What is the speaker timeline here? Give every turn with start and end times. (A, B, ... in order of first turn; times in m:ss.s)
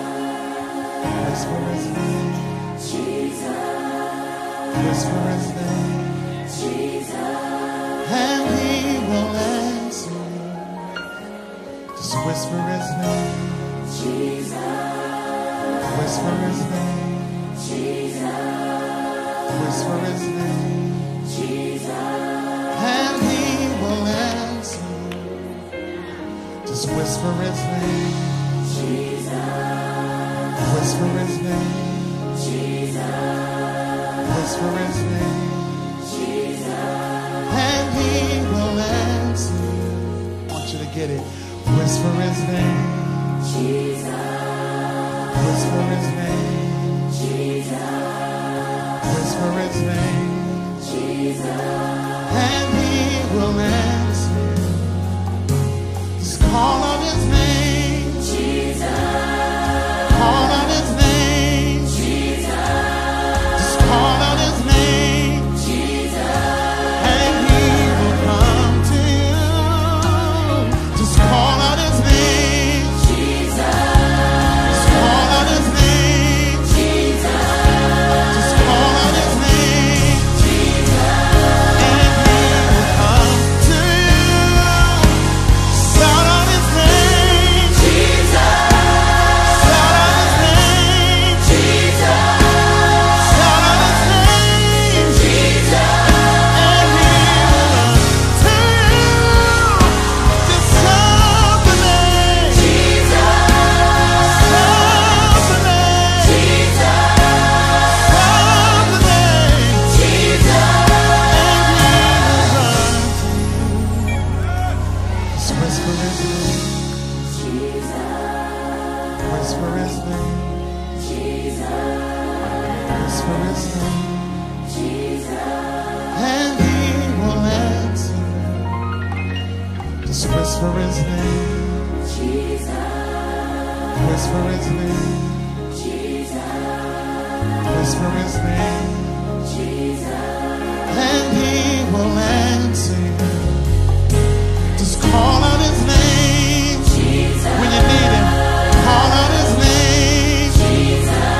0:01.2-0:02.9 A
0:04.7-0:06.4 A
0:08.0-0:11.0 A
0:11.9-0:14.0 A
0:15.8-0:17.7 A
0:19.4-0:21.4 A
0:22.7-0:25.7 A
0:26.6-0:28.8 A
0:30.6-0:32.5 A
0:34.2-0:36.1 A
0:37.4-0:43.7 A
0:45.3-0:47.6 A
0:49.0-0:51.0 A
0:52.2-0:55.3 A
0:56.2-0:58.8 A
1:00.0-1:02.4 A
1:03.5-1:06.0 A
1:06.9-1:13.4 A
1:14.6-1:17.3 A
1:18.3-1:20.7 A
1:21.7-1:28.5 A
1:29.3-1:32.4 A
1:33.0-1:43.2 A
1:44.2-1:47.0 A
1:47.9-1:54.4 A
1:55.3-1:56.9 A
1:59.2-2:00.9 A
2:02.9-2:04.6 A
2:06.1-2:08.9 A
2:10.0-2:12.1 A
2:13.9-2:15.8 A
2:17.6-2:19.5 A
2:20.8-2:23.7 A
2:24.7-2:31.0 A